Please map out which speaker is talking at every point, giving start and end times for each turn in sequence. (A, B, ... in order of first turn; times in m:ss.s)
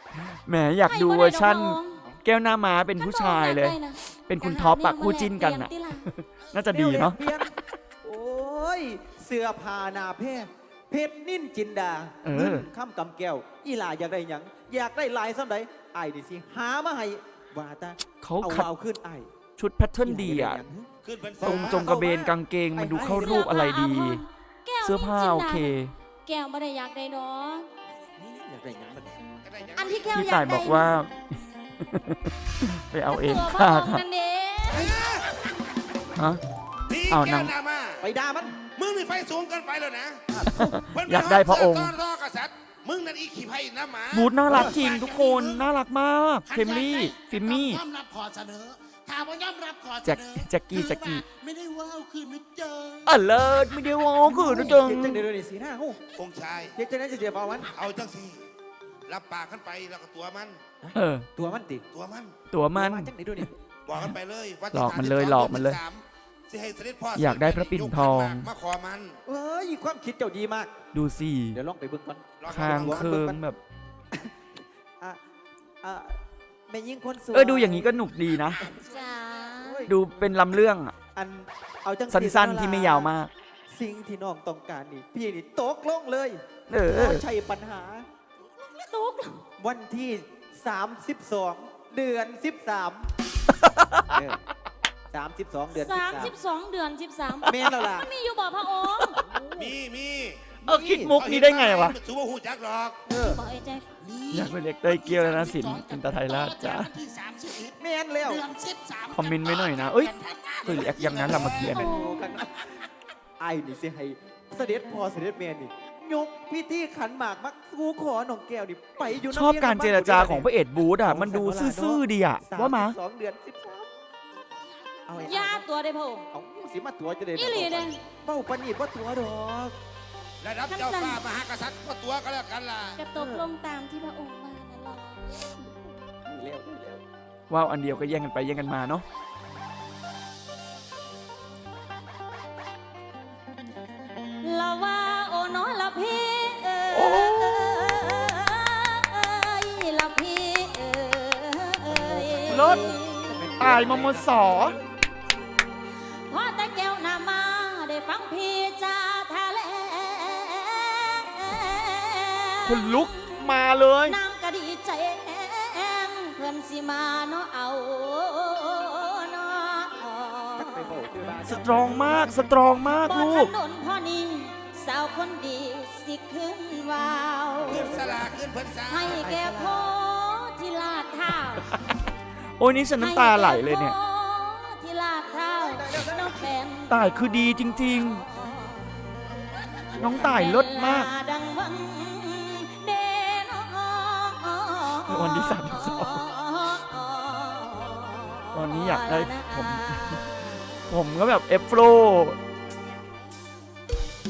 0:00.2-0:07.4 A
0:00.9-0:02.0 B
0:03.0-0:06.1 B
0:06.7-0:07.5 C
0:08.0-0:19.3 C
0:12.2-0:12.7 A
0:18.2-0:18.7 A
0:19.6-0:20.6 A
0:20.0-0:20.9 C
0:21.0-0:21.9 D
0:21.4-0:23.5 C
0:21.4-0:24.2 A
0:23.1-0:27.7 B
0:24.8-0:25.9 A
0:28.2-0:29.2 C
0:28.3-0:28.8 E
0:29.4-0:30.5 D
0:29.8-0:30.9 B
0:30.1-0:34.0 A
0:33.1-0:35.1 B
0:34.7-0:35.4 D
0:36.2-0:36.4 A
0:36.9-0:38.1 D
0:37.1-0:37.5 A
0:38.0-0:38.6 C
0:38.7-0:40.2 D
0:40.3-0:40.8 C
0:40.5-0:42.0 A
0:40.9-0:44.6 D
0:44.1-0:47.8 A
0:44.5-0:44.8 C
0:44.6-0:45.7 E
0:46.5-0:53.2 E
0:50.0-0:51.2 A
0:53.1-0:55.2 A
0:54.2-0:56.0 C
0:56.2-0:56.8 D
0:56.8-0:57.7 C
0:57.7-0:58.4 D
0:59.1-1:00.6 D
1:00.8-1:01.8 C
1:01.0-1:01.3 A
1:01.9-1:02.3 D
1:02.5-1:03.1 A
1:02.8-1:03.5 C
1:03.9-1:09.2 D
1:04.7-1:05.8 A
1:07.2-1:08.5 A
1:09.3-1:10.7 C
1:10.9-1:11.6 A
1:11.5-1:13.4 C
1:12.4-1:13.0 D
1:12.5-1:13.6 A
1:15.8-1:18.0 C
1:17.3-1:18.6 A
1:18.8-1:19.9 B
1:19.6-1:20.1 C
1:19.9-1:20.9 A
1:21.1-1:23.1 C
1:22.1-1:23.3 A
1:23.7-1:28.1 C
1:26.7-1:27.2 A
1:28.6-1:29.4 B
1:29.6-1:33.1 C
1:33.6-1:34.2 A
1:34.1-1:34.4 C
1:35.1-1:36.4 C
1:35.7-1:39.3 B
1:37.5-1:38.1 C
1:39.3-1:39.7 C
1:39.6-1:40.4 D
1:40.6-1:42.0 A
1:40.7-1:41.2 C
1:41.1-1:43.0 D
1:43.1-1:43.4 C
1:43.2-1:43.9 B
1:44.0-1:50.9 E
1:44.3-1:46.9 A
1:47.8-1:48.5 C
1:49.1-1:51.9 A
1:50.8-1:51.8 D
1:51.3-1:52.8 C
1:51.7-1:52.2 B
1:53.4-2:00.5 C
1:59.3-2:03.0 A
2:01.0-2:03.9 C
2:05.1-2:05.7 C
2:05.2-2:06.3 B
2:06.3-2:09.8 C
2:07.4-2:08.0 B
2:10.4-2:13.1 D
2:10.7-2:11.2 B
2:13.0-2:15.6 B
2:13.2-2:13.5 C
2:16.3-2:17.0 C
2:17.5-2:19.0 A
2:24.4-2:33.7 B
2:26.9-2:27.7 A
2:31.9-2:34.4 C
2:32.5-2:32.9 A
2:33.6-2:34.8 A
2:36.3-2:43.5 B
2:42.6-2:44.2 A
2:44.0-2:51.0 B
2:50.6-2:52.6 C
2:51.5-2:53.5 A
2:53.0-2:58.0 B
2:57.6-2:58.3 C
2:57.6-2:59.2 D
2:58.9-3:01.7 B
2:59.2-2:59.9 C
3:02.6-3:04.0 A
3:03.0-3:09.0 B
3:05.5-3:06.6 C
3:06.9-3:08.2 A
3:09.9-3:11.1 A
3:10.0-3:20.8 B
3:15.1-3:16.2 A
3:18.5-3:20.2 A
3:20.9-3:22.4 A